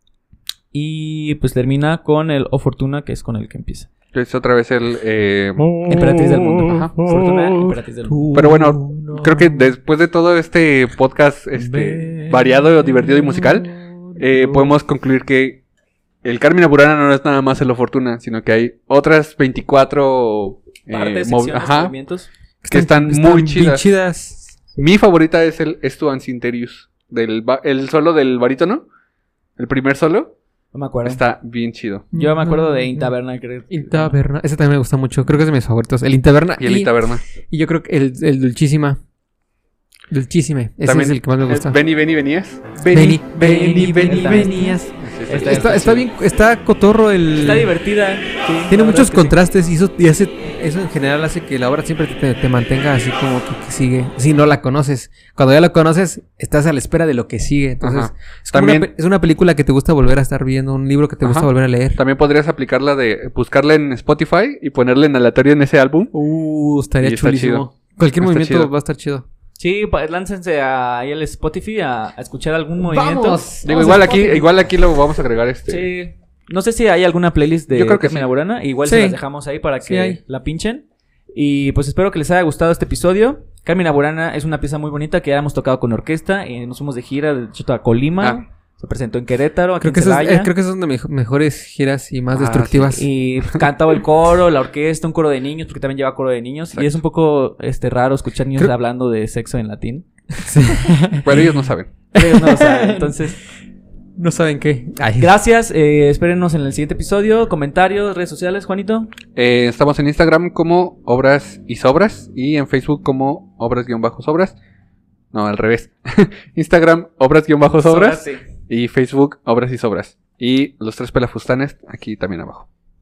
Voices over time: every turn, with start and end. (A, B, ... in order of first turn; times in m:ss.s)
0:00.7-0:03.9 A
0:04.1-0:05.9 B
0:05.8-0:08.3 A
0:06.6-0:06.9 B
0:08.1-0:09.7 C
0:08.3-0:15.6 B
0:11.6-0:14.7 C
0:16.2-0:21.9 B
0:20.9-0:22.3 A
0:22.6-0:24.6 C
0:22.7-0:23.8 B
0:24.8-0:28.8 B
0:29.6-0:30.3 B
0:30.7-0:31.2 A
0:31.0-0:32.1 B
0:32.1-0:33.1 C
0:32.1-0:34.2 A
0:33.7-0:39.0 C
0:36.6-0:37.2 B
0:40.1-0:41.8 C
0:40.8-0:46.0 B
0:42.9-0:47.7 C
0:43.4-0:46.0 A
0:47.3-0:49.3 A
0:48.7-1:02.0 C
0:57.8-0:58.9 B
1:01.2-1:06.1 B
1:06.1-1:09.2 C
1:07.0-1:07.6 B
1:08.2-1:08.7 B
1:09.6-1:14.0 A
1:12.8-1:14.5 C
1:13.6-1:15.9 B
1:15.7-1:30.5 A
1:17.7-1:18.3 B
1:18.8-1:19.2 C
1:19.8-1:20.2 C
1:29.8-1:33.1 C
1:32.3-1:32.9 B
1:32.9-1:40.9 A
1:40.4-1:41.5 C
1:41.2-1:41.9 B
1:42.1-1:43.4 A
1:42.1-1:43.3 C
1:44.2-1:45.3 C
1:45.2-1:49.1 A
1:49.4-1:54.5 B
1:55.3-2:02.6 B
1:57.8-1:58.4 A